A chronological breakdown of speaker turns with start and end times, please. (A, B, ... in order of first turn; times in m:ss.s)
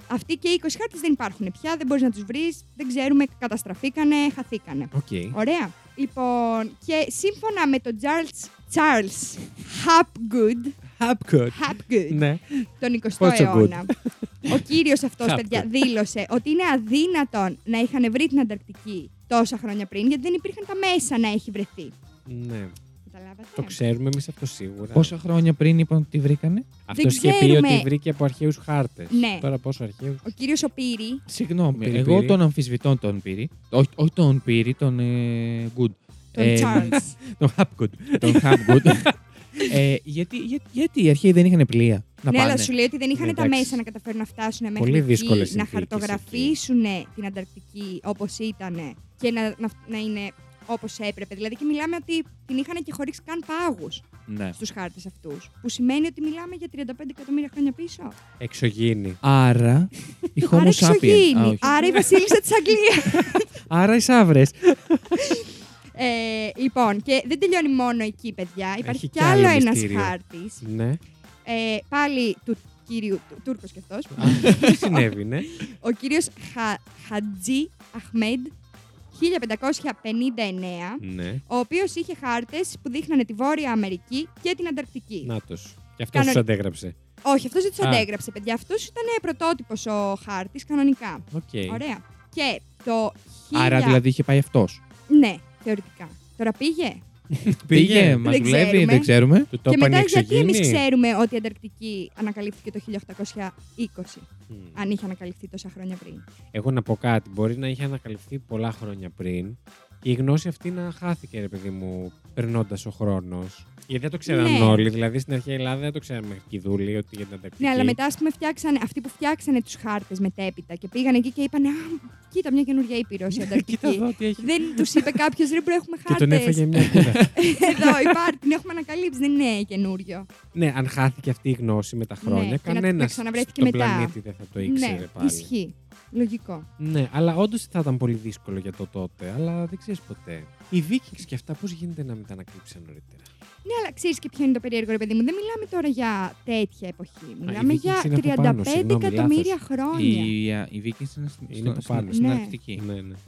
0:00.1-0:10.8 A
0:04.9-0:05.4 B
0:10.9-0:12.7 B
0:11.5-0:12.2 A
0:12.8-0:13.9 A
0:13.2-0:14.6 B
0:14.5-0:21.9 A
0:15.2-0:15.7 B
0:22.2-0:22.7 B
0:23.0-0:23.8 A
0:23.6-0:25.1 B
0:24.9-0:26.6 C
0:26.9-0:30.2 B
0:26.9-0:27.9 A
0:29.1-0:29.5 A
0:30.2-0:31.2 A
0:31.3-0:37.0 C
0:31.8-0:32.4 B
0:36.3-0:37.2 A
0:36.6-0:39.7 B
0:38.2-0:42.7 C
0:42.3-0:54.0 A
0:43.1-0:43.8 B
0:44.8-0:46.6 B
0:54.3-0:54.6 C
0:54.6-0:58.2 A
0:58.4-0:59.2 B
0:59.2-1:02.0 C
1:00.5-1:03.5 A
1:03.2-1:05.2 B
1:05.1-1:10.6 A
1:08.8-1:11.0 B
1:11.4-1:18.5 A
1:14.1-1:15.5 B
1:19.1-1:25.3 A
1:21.0-1:21.4 B
1:25.2-1:27.0 B
1:26.1-1:26.4 A
1:27.2-1:34.0 A
1:27.8-1:28.1 B
1:31.3-1:31.8 B
1:33.5-1:34.8 C
1:35.1-1:37.0 A
1:37.3-1:38.3 B
1:37.7-1:39.5 C
1:38.2-1:39.1 A
1:39.5-1:40.8 B
1:39.6-1:46.2 A
1:44.5-1:44.8 B
1:46.5-1:58.0 B
1:54.3-1:54.8 A
1:57.6-2:10.3 A
2:03.3-2:05.2 B
2:06.0-2:07.3 B
2:06.9-2:08.2 C
2:10.5-2:15.5 B
2:12.2-2:16.7 A
2:16.8-2:23.3 B
2:23.6-2:30.3 A
2:27.4-2:29.5 B
2:29.9-2:32.8 C
2:31.5-2:33.2 B
2:32.1-2:32.6 A